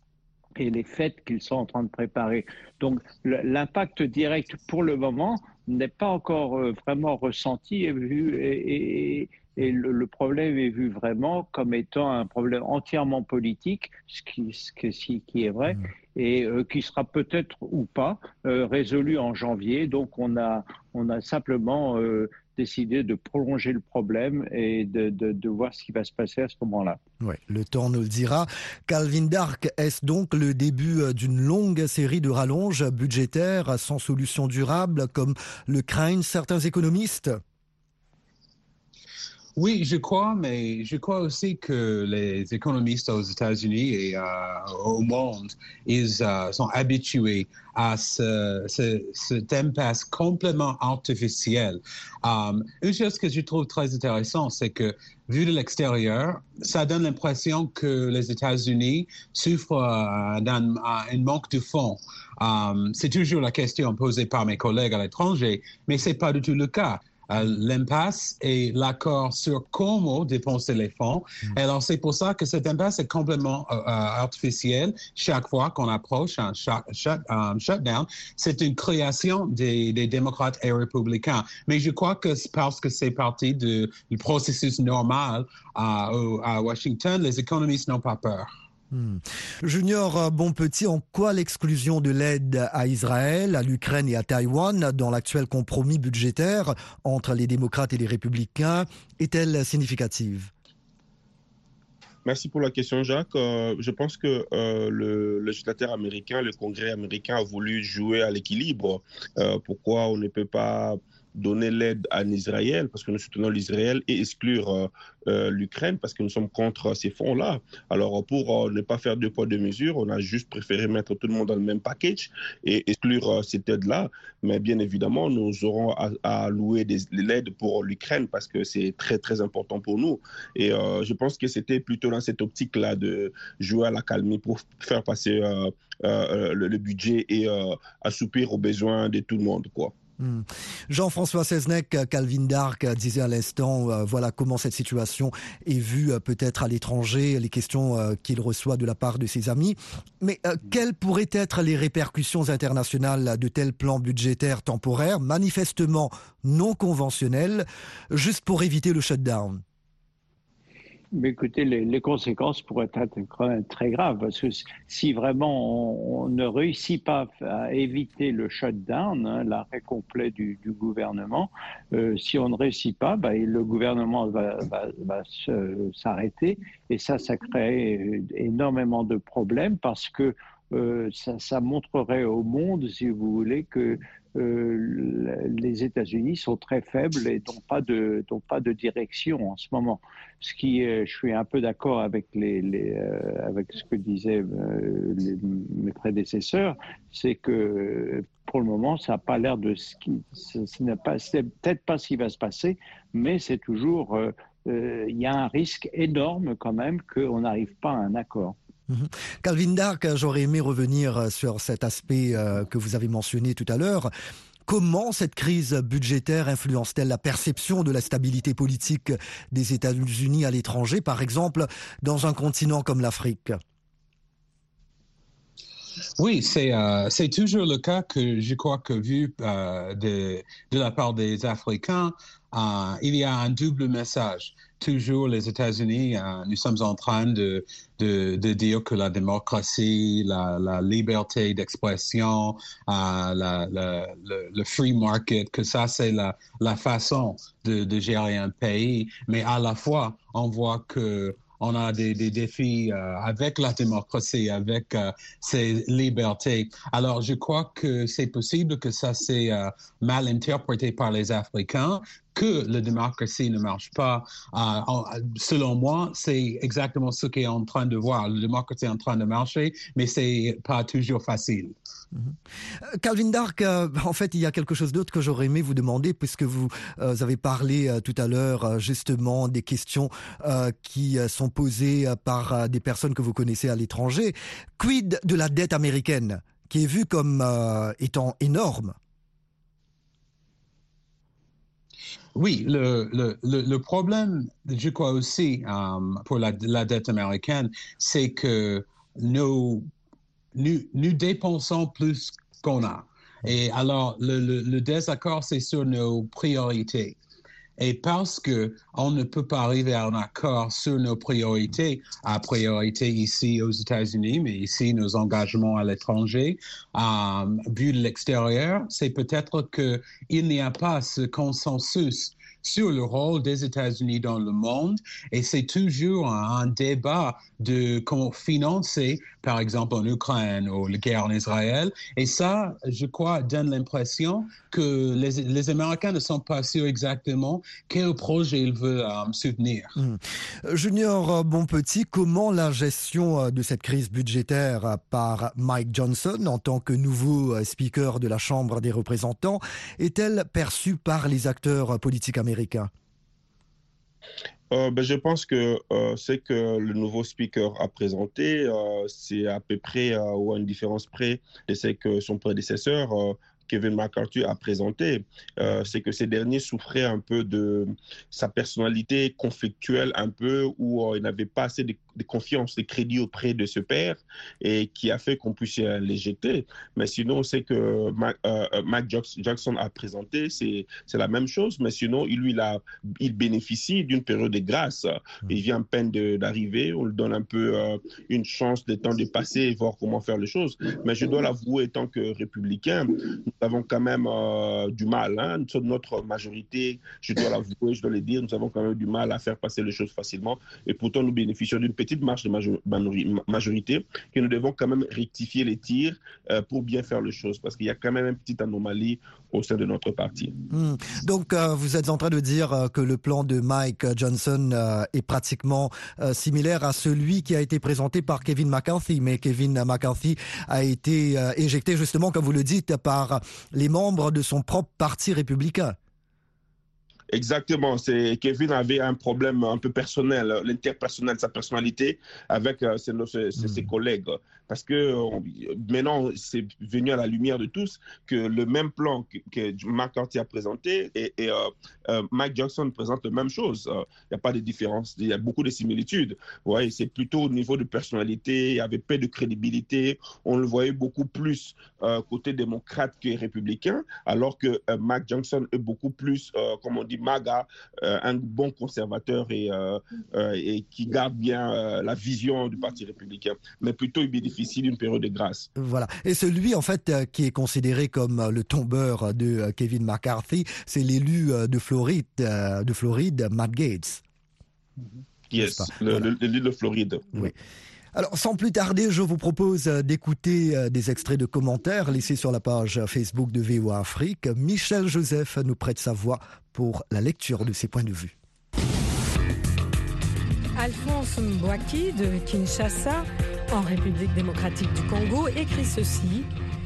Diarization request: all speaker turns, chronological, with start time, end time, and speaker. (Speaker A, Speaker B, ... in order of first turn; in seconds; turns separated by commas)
Speaker A: 0.6-27.0, Speaker B: 27.2-37.4, Speaker C: 39.5-88.5, Speaker B: 88.9-100.5, Speaker D: 102.2-139.9, Speaker B: 140.2-159.6, Speaker A: 161.1-208.6, Speaker B: 208.9-214.1, Speaker B: 214.7-223.6, Speaker C: 226.2-271.7, Speaker B: 272.9-288.9, Speaker C: 292.3-299.9, Speaker C: 300.5-307.2, Speaker C: 307.8-339.9, Speaker B: 340.0-352.9, Speaker D: 354.7-410.5, Speaker B: 410.7-426.0, Speaker D: 427.3-465.7, Speaker B: 465.8-474.2, Speaker D: 475.5-477.3, Speaker B: 475.6-476.2, Speaker B: 478.1-488.3, Speaker E: 490.8-496.5